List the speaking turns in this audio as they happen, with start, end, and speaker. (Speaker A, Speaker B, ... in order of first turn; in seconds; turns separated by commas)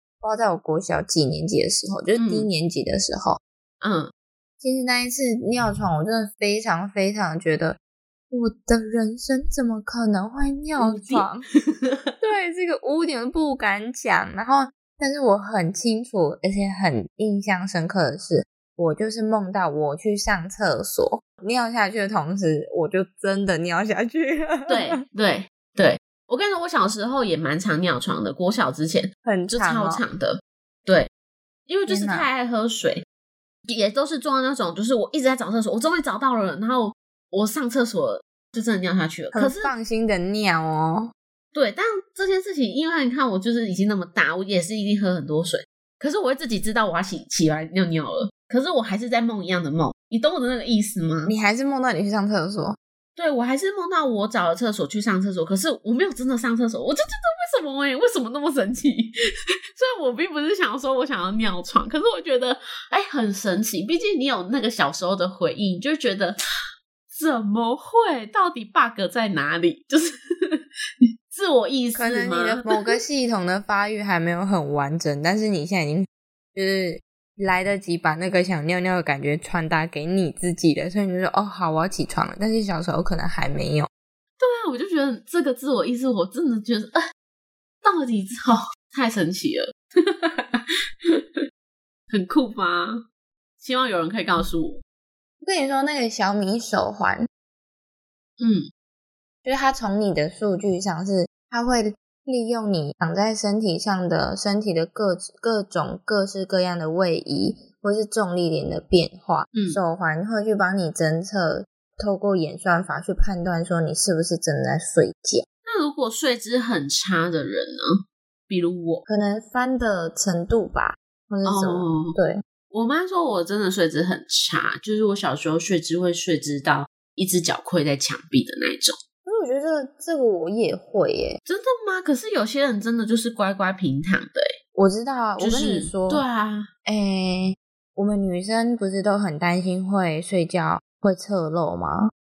Speaker A: 0.2-3.4, Speaker B: 2.2-2.5, Speaker B: 3.8-4.1, Speaker A: 4.6-7.8, Speaker A: 8.3-11.4, Speaker B: 10.8-12.0, Speaker A: 12.2-25.0, Speaker B: 24.7-31.1, Speaker A: 29.2-30.0, Speaker B: 31.7-33.0, Speaker A: 31.9-32.3, Speaker B: 33.7-39.7, Speaker A: 39.3-41.1, Speaker B: 41.5-51.3, Speaker A: 51.3-52.8, Speaker B: 53.2-59.1, Speaker B: 59.8-66.4, Speaker B: 67.1-70.6, Speaker B: 71.3-73.0, Speaker A: 72.0-83.9, Speaker B: 84.4-87.0, Speaker B: 87.8-91.2, Speaker B: 92.1-93.0, Speaker B: 93.6-94.8, Speaker A: 95.4-97.3, Speaker B: 98.4-98.7, Speaker A: 99.5-115.5, Speaker B: 109.5-109.8, Speaker B: 115.6-117.9, Speaker B: 118.5-119.0, Speaker A: 119.1-122.4, Speaker B: 121.5-122.2, Speaker B: 122.7-129.0, Speaker A: 129.2-131.4, Speaker B: 131.5-134.5, Speaker A: 134.8-136.2, Speaker B: 135.4-136.7, Speaker A: 136.9-142.1